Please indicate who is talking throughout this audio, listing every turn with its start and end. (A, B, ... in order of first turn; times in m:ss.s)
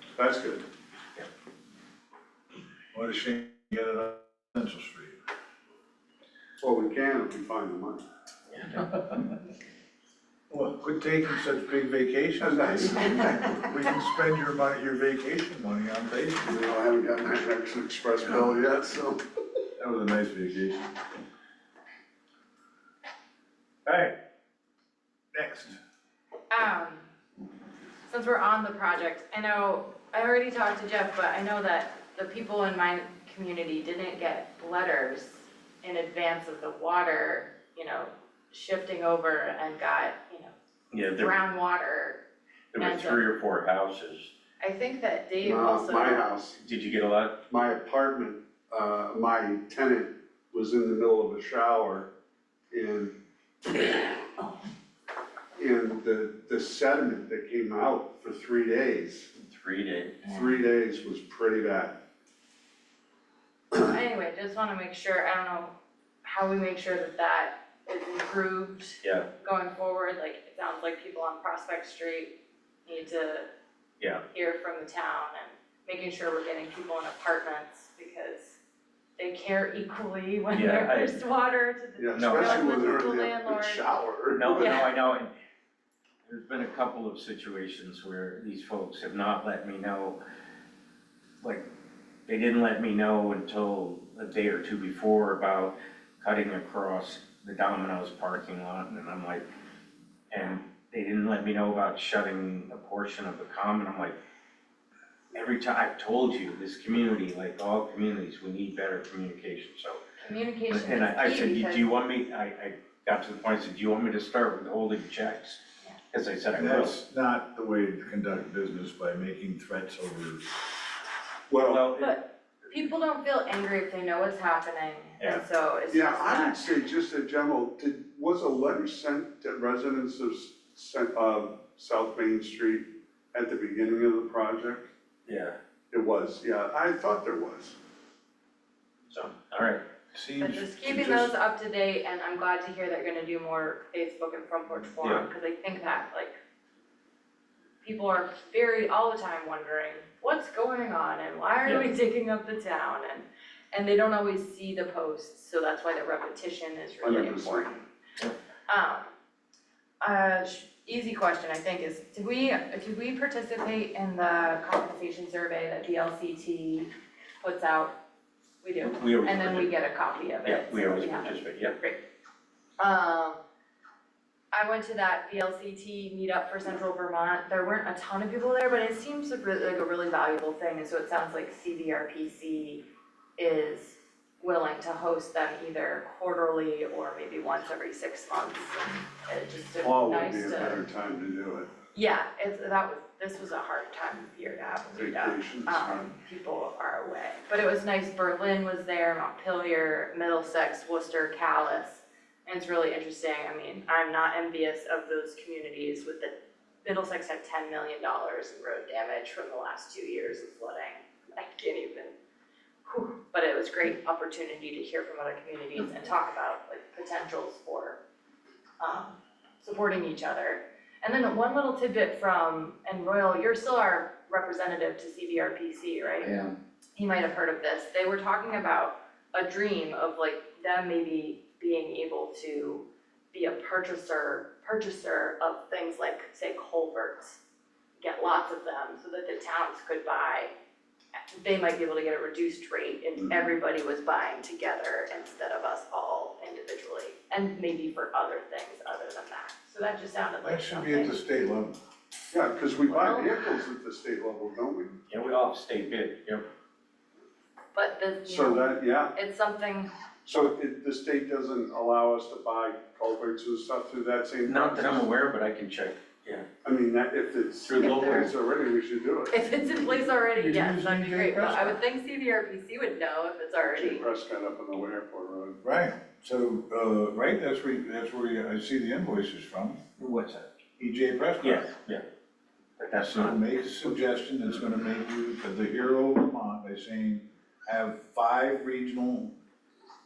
0:00.2-0:00.6 A
0:02.9-0:05.2 B
0:06.6-0:08.0 A
0:08.5-0:09.2 C
0:10.5-0:16.6 B
0:12.4-0:13.4 A
0:16.4-0:19.2 A
0:19.8-0:20.9 B
0:23.8-0:24.1 B
0:25.3-0:25.8 B
0:26.5-0:27.0 D
0:28.1-0:40.5 D
0:40.9-0:41.3 C
0:41.1-0:42.2 D
0:42.7-0:44.3 C
0:42.8-0:43.2 D
0:44.6-0:46.2 D
0:45.4-0:46.6 A
0:46.6-0:47.4 C
0:47.5-0:52.1 A
0:52.7-0:53.1 A
0:55.6-0:59.3 A
0:59.4-1:00.2 C
1:00.2-1:02.0 A
1:03.7-1:12.3 D
1:09.0-1:09.3 C
1:12.8-1:13.5 D
1:14.0-1:14.2 C
1:14.3-1:18.6 D
1:19.2-1:23.8 D
1:20.5-1:21.2 C
1:22.0-1:24.8 A
1:22.2-1:22.8 C
1:24.3-1:25.3 C
1:24.6-1:24.9 D
1:26.2-1:30.2 C
1:32.2-1:39.4 C
1:40.3-1:44.2 C
1:45.3-1:50.0 C
1:50.2-1:51.9 D
1:50.7-1:56.9 C
1:56.5-2:00.5 B
2:01.5-2:01.8 A
2:01.6-2:02.1 C
2:02.0-2:06.7 D
2:05.9-2:14.8 A
2:15.2-2:15.6 C
2:15.9-2:17.8 A
2:19.1-2:19.8 C
2:20.1-2:21.3 B
2:20.4-2:26.4 D
2:25.0-2:25.2 C
2:27.8-2:37.8 D
2:37.0-2:37.7 A
2:38.7-2:39.1 D
2:40.0-2:46.9 D
2:47.4-2:47.9 D
2:48.6-2:52.0 D
2:48.8-2:49.7 C
2:50.4-2:51.8 C
2:52.8-2:53.4 D
2:54.5-3:02.8 D
3:03.4-3:10.8 D
3:09.8-3:11.7 A
3:11.9-3:32.1 D
3:14.9-3:16.1 A
3:32.8-3:38.0 D
3:38.8-3:57.4 D
3:58.0-4:00.5 D
4:01.3-4:11.4 D
4:10.4-4:11.8 B
4:12.3-4:15.0 A
4:12.8-4:13.3 D
4:15.1-4:16.4 C
4:17.7-4:19.9 D
4:18.2-4:19.1 A
4:20.2-4:25.1 A
4:24.4-4:26.4 C
4:26.6-4:29.4 A
4:27.7-4:28.3 C
4:27.8-4:28.3 D
4:29.3-4:34.0 D
4:30.0-4:31.8 B
4:33.7-4:35.6 A
4:35.6-4:39.8 B
4:40.0-4:40.4 C
4:40.8-4:41.6 B
4:41.4-4:42.0 C
4:42.8-4:43.4 C
4:43.0-4:49.3 B